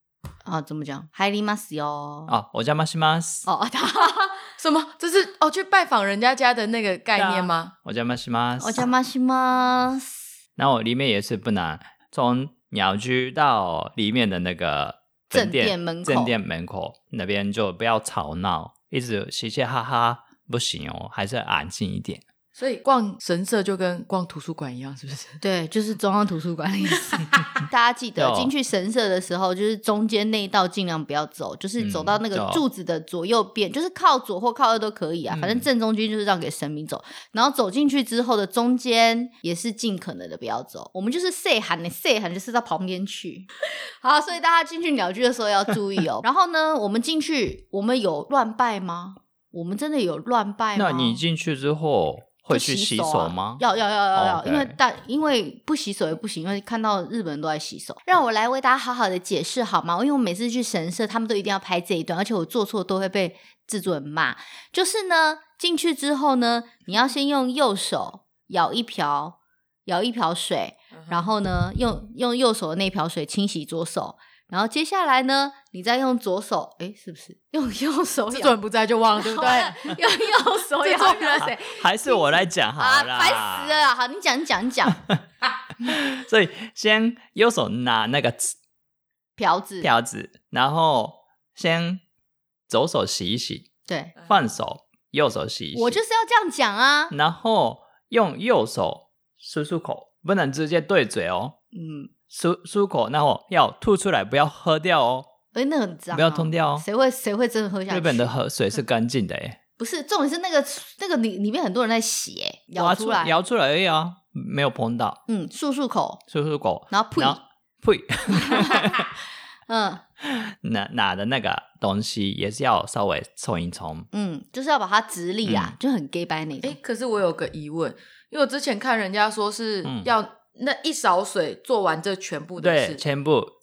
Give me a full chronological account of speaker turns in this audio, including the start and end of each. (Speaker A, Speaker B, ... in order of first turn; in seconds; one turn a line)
Speaker A: 0.5-2.4
Speaker B: 2.3-3.5
Speaker A: 3.5-4.4
Speaker C: 4.6-7.7
Speaker B: 7.2-8.9
Speaker A: 8.6-10.2
Speaker B: 10.6-22.2
Speaker A: 15.3-16.3
Speaker C: 22.6-25.4
Speaker A: 25.4-43.5
Speaker B: 28.2-28.5
Speaker B: 31.8-32.6
Speaker B: 35.3-35.7
Speaker A: 44.0-51.2
Speaker B: 50.8-53.6
Speaker A: 52.5-78.6
Speaker B: 54.1-54.8
Speaker C: 78.3-79.8
Speaker A: 79.2-85.0
Speaker C: 80.8-81.5
Speaker B: 81.4-83.8
Speaker B: 85.8-88.6
Speaker A: 89.4-89.9
Speaker B: 89.8-92.0
Speaker B: 92.7-93.7
Speaker A: 93.9-94.1
Speaker B: 94.3-96.0
Speaker A: 95.7-97.1
Speaker B: 97.1-101.6
Speaker A: 101.7-102.1
Speaker B: 102.3-105.3
Speaker A: 105.5-108.3
Speaker B: 106.1-106.8
Speaker B: 107.9-109.6
Speaker A: 109.8-113.4
Speaker B: 112.8-115.2
Speaker A: 115.3-116.2
Speaker B: 116.3-119.1
Speaker A: 116.9-117.4
Speaker A: 118.3-119.0
Speaker A: 119.7-120.0
Speaker B: 120.2-124.1
Speaker A: 124.1-126.8
Speaker B: 125.5-125.8
Speaker C: 126.6-133.0
Speaker B: 129.8-130.1
Speaker B: 132.6-133.5